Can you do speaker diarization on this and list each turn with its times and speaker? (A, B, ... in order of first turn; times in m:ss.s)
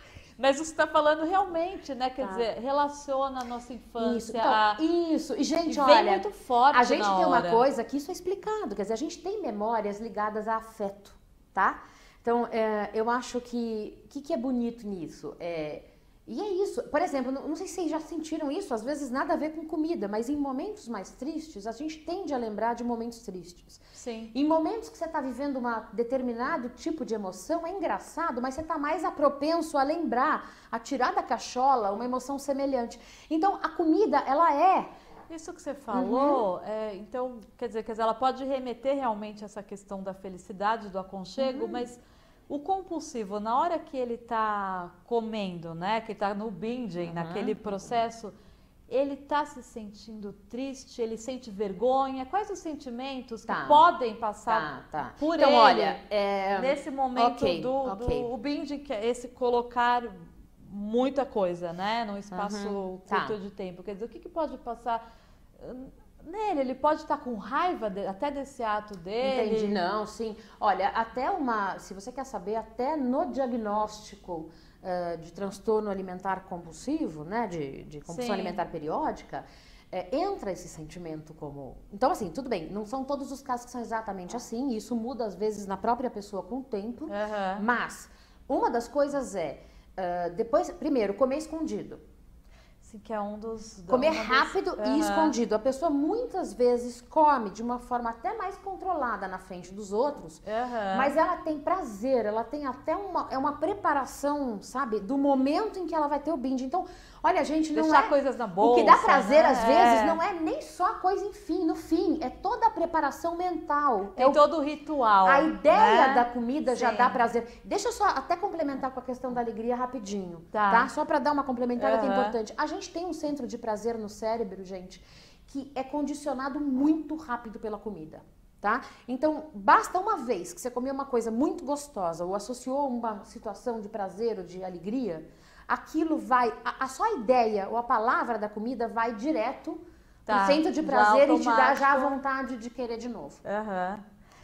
0:00.4-0:04.8 A
0:04.0-0:23.8 B
0:05.6-0:07.6 A
0:24.0-0:24.3 A
0:24.3-0:34.9 B
0:35.3-0:48.3 A
0:35.9-0:36.4 B
0:41.4-0:41.9 B
0:47.0-0:48.0 B
0:48.9-0:56.0 A
0:53.5-0:53.9 B
0:54.5-0:58.3 B
0:56.6-1:05.0 A
1:02.3-1:03.4 B
1:05.6-1:09.8 A
1:09.2-1:32.0 B
1:18.1-1:18.6 A
1:27.1-1:27.6 A
1:32.8-1:35.4 A
1:33.9-1:54.4 B
1:40.4-1:41.2 A
1:47.7-1:50.2 A
1:54.2-1:57.2 A
1:55.2-2:23.4 B
2:00.5-2:00.9 A
2:01.8-2:02.4 A
2:20.3-2:22.2 A
2:23.4-2:24.0 A